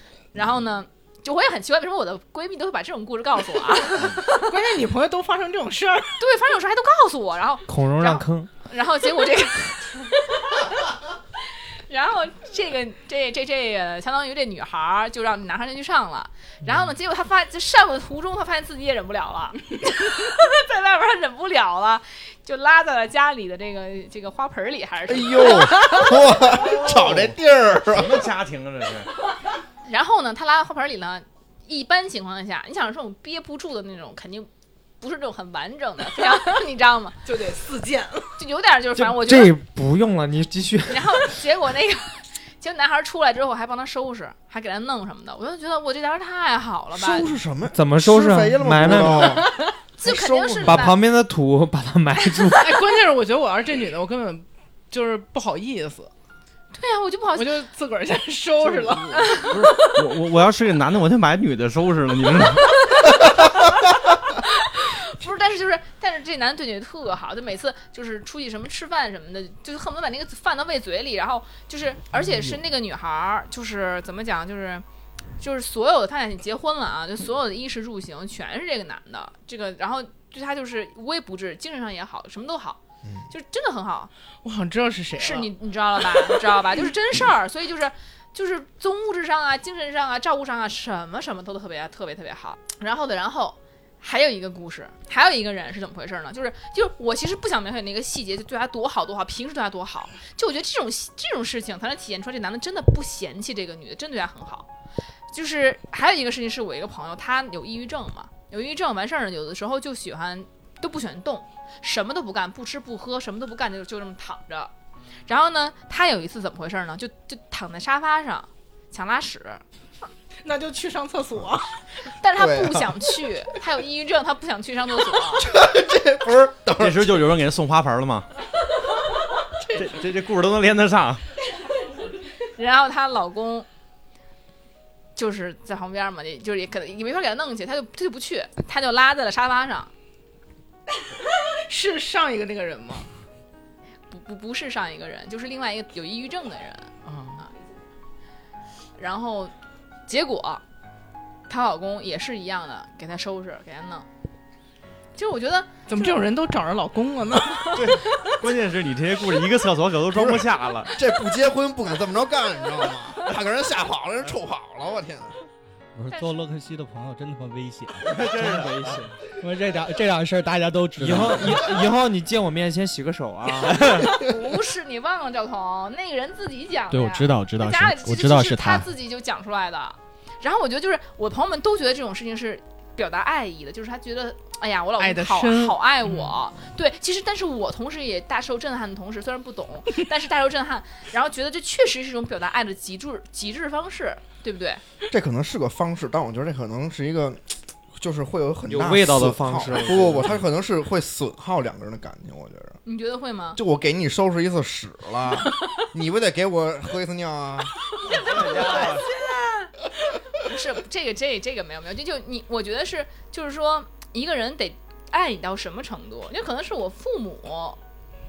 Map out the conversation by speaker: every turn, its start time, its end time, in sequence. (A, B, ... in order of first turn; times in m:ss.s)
0:00.3-0:04.5 A
0:04.4-0:06.2 B
0:06.2-0:10.9 A
0:07.7-0:08.5 C
0:11.9-0:26.2 A
0:25.1-0:28.3 D
0:26.4-0:29.1 E
0:29.9-0:34.5 A
0:35.0-0:37.2 A
0:37.3-0:38.3 B
0:38.4-0:39.6 A
0:39.0-0:41.3 C
0:40.9-0:47.4 A
0:46.9-0:50.9 D
0:47.7-0:49.4 C
0:49.1-0:51.0 A
0:50.6-0:52.7 C
0:52.5-0:56.1 B
0:56.7-0:57.6 A
0:57.4-1:00.0 B
0:58.7-1:03.0 E
1:04.4-1:14.8 A
1:15.4-1:24.1 A
1:24.4-1:26.6 B
1:25.2-1:44.7 A
1:45.3-1:54.7 A
1:55.3-1:59.6 A
2:00.4-2:01.8 B
2:02.2-2:05.5 A
2:02.4-2:03.0 D
2:05.4-2:07.2 D
2:06.8-2:08.3 E
2:09.7-2:11.2 E
2:12.6-2:13.7 A
2:15.2-2:19.9 A
2:21.5-2:23.1 B
2:24.1-2:27.5 A
2:27.1-2:27.4 B
2:29.0-2:29.5 A
2:30.1-2:30.6 A
2:31.5-2:34.1 A
2:35.2-2:35.7 A
2:35.9-2:38.0 B
2:37.7-2:40.9 E
2:40.1-2:45.4 D
2:46.0-2:51.8 F
2:48.1-2:48.7 E
2:48.3-2:49.2 C
2:51.0-2:54.3 C
2:53.8-3:14.8 A
2:56.9-2:58.9 F
3:05.0-3:06.4 B
3:15.1-3:22.8 D
3:18.7-3:20.4 C
3:22.8-3:23.6 A
3:23.6-3:27.8 D
3:28.1-3:29.1 E
3:28.2-3:28.9 B
3:30.4-3:37.8 A